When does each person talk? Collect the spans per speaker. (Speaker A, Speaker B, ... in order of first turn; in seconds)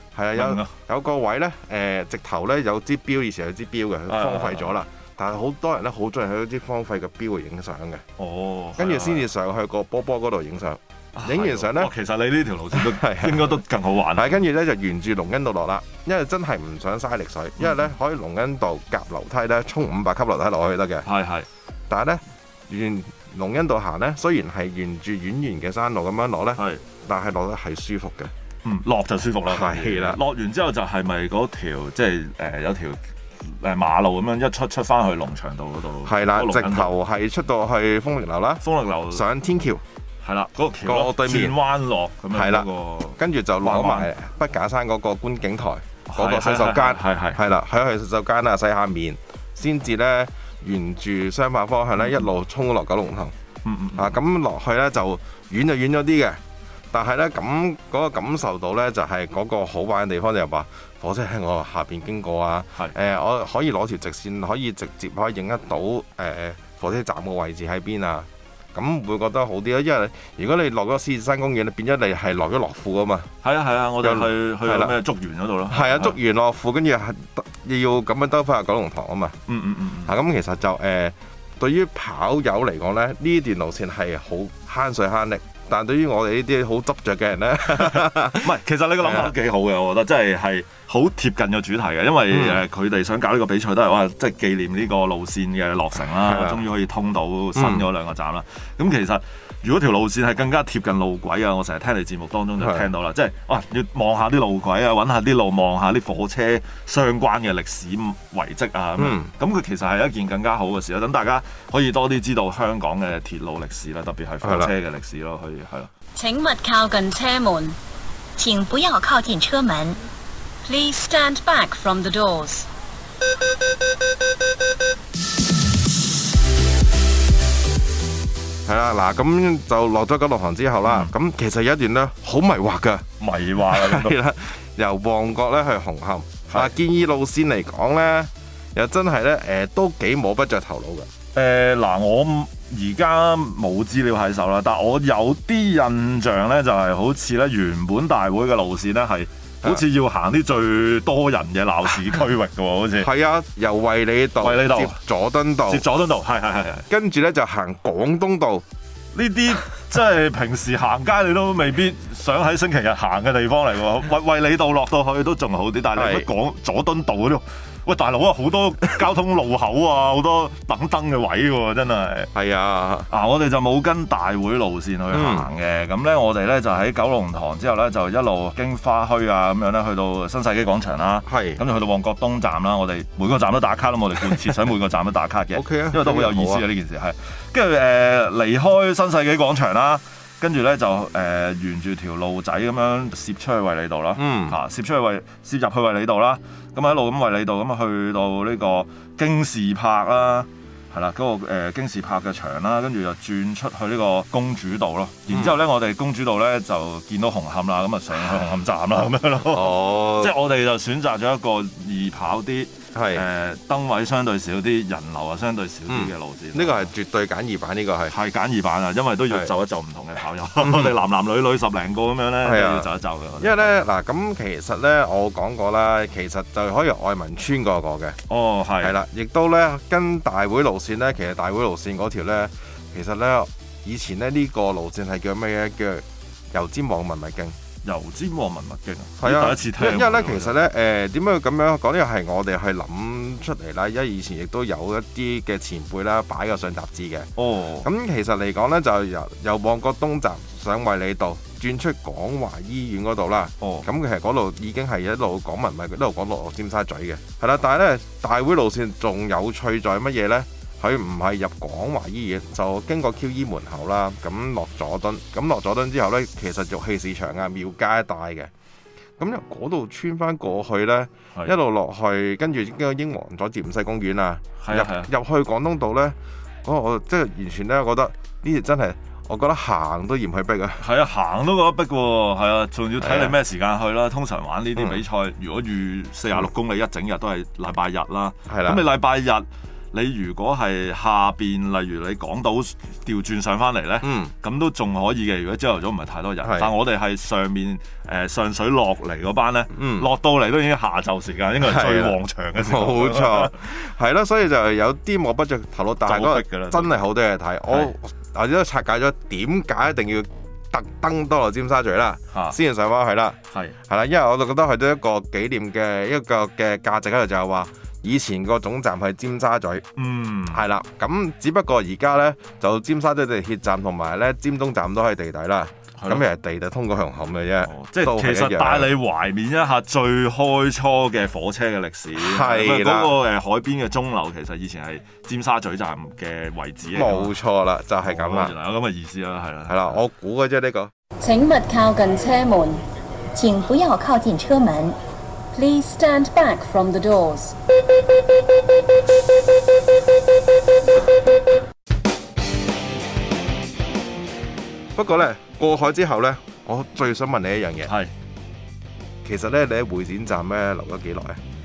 Speaker A: 0.1-8.0, 8.8-11.9, 12.7-13.6, 14.1-21.1, 21.9-28.3, 29.5-30.2, 36.0-39.8, 40.8-41.6, 42.3-53.3, 54.0-56.4, 56.9-73.3, 74.0-75.0, 75.7-79.4, 80.0-89.3, 92.3-92.6, 96.2-96.6, 97.5-97.9, 102.6-102.9, 109.0-109.3, 114.4-114.7, 128.7-141.1, 153.0-155.8, 156.9-158.7, 165.9-166.3, 172.3-173.1, 175.1-175.5, 181.3-181.6, 185.5-186.7, 194.2-194.6, 205.3-205.6, 209.4-210.3, 212.9-213.2, 215.9-218.2, 220.6-220.9, 222.4-222.9, 223.4-228.2, 228.8-237.6, 239.2-247.3, 247.8-268.5, 269.2-280.8, 283.0-283.4, 288.5-288.8, 294.0-294.3, 296.4-296.7, 299.7-300.1, 301.6-319.9, 320.5-328.9, 332.1-333.2, 336.9-338.6, 339.7-340.9, 354.9-357.9, 359.2-361.4
Speaker B: 0.3-0.7, 4.1-4.7, 8.2-9.2, 11.2-14.4, 21.0-21.5, 26.6-26.8, 28.6-36.9, 38.6-39.3, 40.2-44.1, 46.1-47.4, 52.0-52.3, 53.6-54.2, 73.4-76.2, 79.5-80.2, 87.8-115.9, 130.8-131.1, 133.2-134.2, 141.3-153.1, 154.4-155.0, 155.7-156.9, 159.2-172.3, 173.1-216.9, 218.1-223.7, 228.3-229.0, 237.8-240.6, 247.4-247.9, 253.6-253.9, 274.6-275.1, 280.8-303.6, 306.1-306.9, 312.3-312.6, 320.0-320.6, 326.0-326.2, 327.6-337.4, 338.0-340.0, 357.9-358.1
Speaker C: 116.2-117.8, 120.7-122.7, 341.2-342.8, 345.5-347.6
Speaker D: 118.4-120.0, 343.3-345.0